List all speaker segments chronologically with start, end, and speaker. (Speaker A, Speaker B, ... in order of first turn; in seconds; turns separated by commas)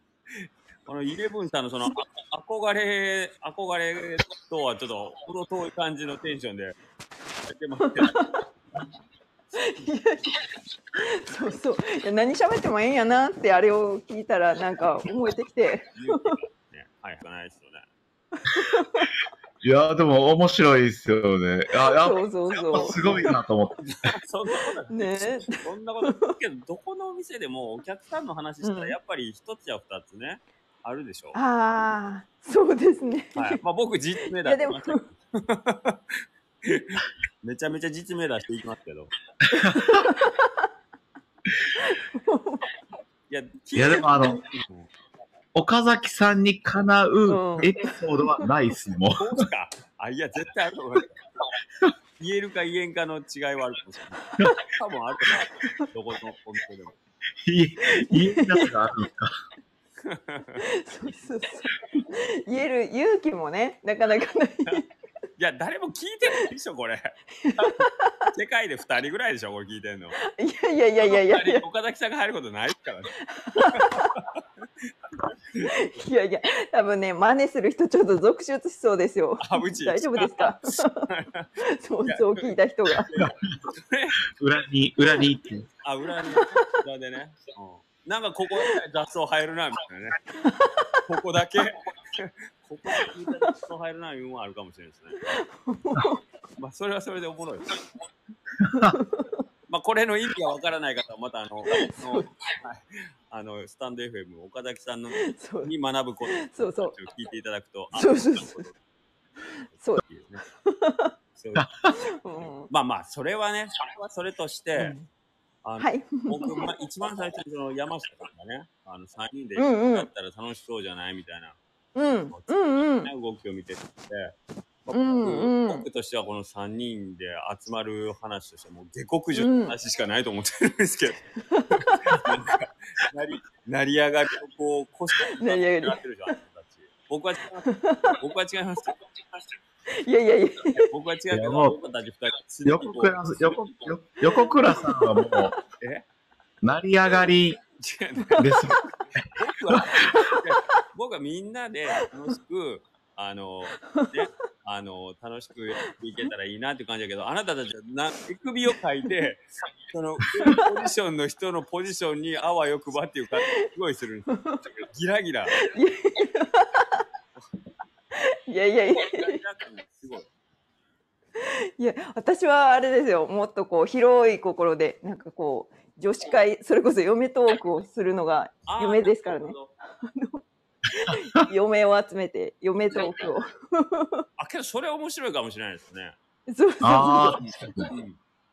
Speaker A: 0.4-6.8, Speaker A: 7.5-8.2, Speaker B: 8.0-8.4, Speaker B: 9.5-10.4, Speaker B: 10.9-16.4, Speaker A: 15.9-17.9, Speaker B: 18.4-19.1, Speaker C: 19.6-23.8, Speaker B: 21.9-23.0, Speaker A: 23.8-31.4, Speaker B: 24.9-26.3, Speaker B: 28.6-28.9, Speaker B: 31.3-33.6, Speaker A: 33.4-39.1, Speaker B: 34.4-35.0, Speaker C: 39.4-40.1, Speaker B: 39.5-40.6, Speaker B: 41.8-42.7, Speaker A: 43.3-44.9, Speaker C: 43.7-44.4, Speaker C: 45.5-49.4, Speaker B: 47.3-47.8, Speaker A: 49.2-51.2, Speaker A: 52.2-57.0, Speaker C: 57.4-59.3, Speaker B: 57.8-58.7, Speaker A: 60.0-60.6, Speaker B: 60.6-64.9, Speaker A: 65.4-70.2, Speaker B: 67.4-68.3, Speaker B: 70.2-71.7, Speaker A: 71.0-74.4, Speaker B: 73.2-74.2, Speaker B: 75.7-81.1, Speaker A: 79.4-81.5, Speaker B: 81.6-83.1, Speaker A: 82.1-82.5, Speaker A: 83.0-84.2, Speaker C: 84.3-85.7, Speaker A: 85.8-90.2, Speaker B: 90.4-91.0, Speaker A: 91.0-95.2, Speaker B: 95.2-96.2, Speaker A: 96.6-97.7, Speaker C: 98.6-99.0, Speaker B: 98.7-99.4, Speaker A: 99.7-108.8, Speaker B: 101.7-102.3, Speaker B: 105.2-105.7, Speaker B: 106.3-106.9, Speaker B: 107.9-108.6, Speaker A: 110.0-110.4, Speaker B: 110.6-111.1, Speaker A: 111.3-114.9, Speaker C: 111.5-111.9, Speaker B: 111.9-112.7, Speaker B: 114.8-115.0, Speaker A: 115.6-121.6, Speaker B: 115.8-116.7, Speaker B: 119.6-120.1, Speaker B: 121.9-123.1, Speaker A: 122.3-131.2, Speaker B: 124.9-125.8, Speaker B: 129.3-129.7, Speaker B: 131.5-132.1, Speaker A: 131.8-138.9, Speaker B: 135.4-136.0, Speaker B: 137.7-138.2, Speaker B: 139.9-140.9, Speaker A: 140.8-143.9, Speaker C: 141.3-141.8, Speaker C: 142.6-145.5, Speaker B: 144.2-145.4, Speaker A: 145.8-146.1, Speaker C: 146.6-147.6, Speaker A: 147.8-148.5, Speaker C: 148.4-149.2, Speaker A: 149.3-164.3, Speaker C: 149.7-150.0, Speaker B: 164.3-164.6, Speaker A: 164.9-165.6, Speaker B: 165.6-167.0, Speaker B: 168.1-169.4, Speaker A: 168.9-170.3, Speaker B: 171.4-180.4, Speaker A: 178.7-179.7, Speaker B: 181.0-184.2, Speaker A: 184.4-186.2, Speaker B: 186.5-187.4, Speaker C: 186.8-187.9, Speaker A: 187.9-188.2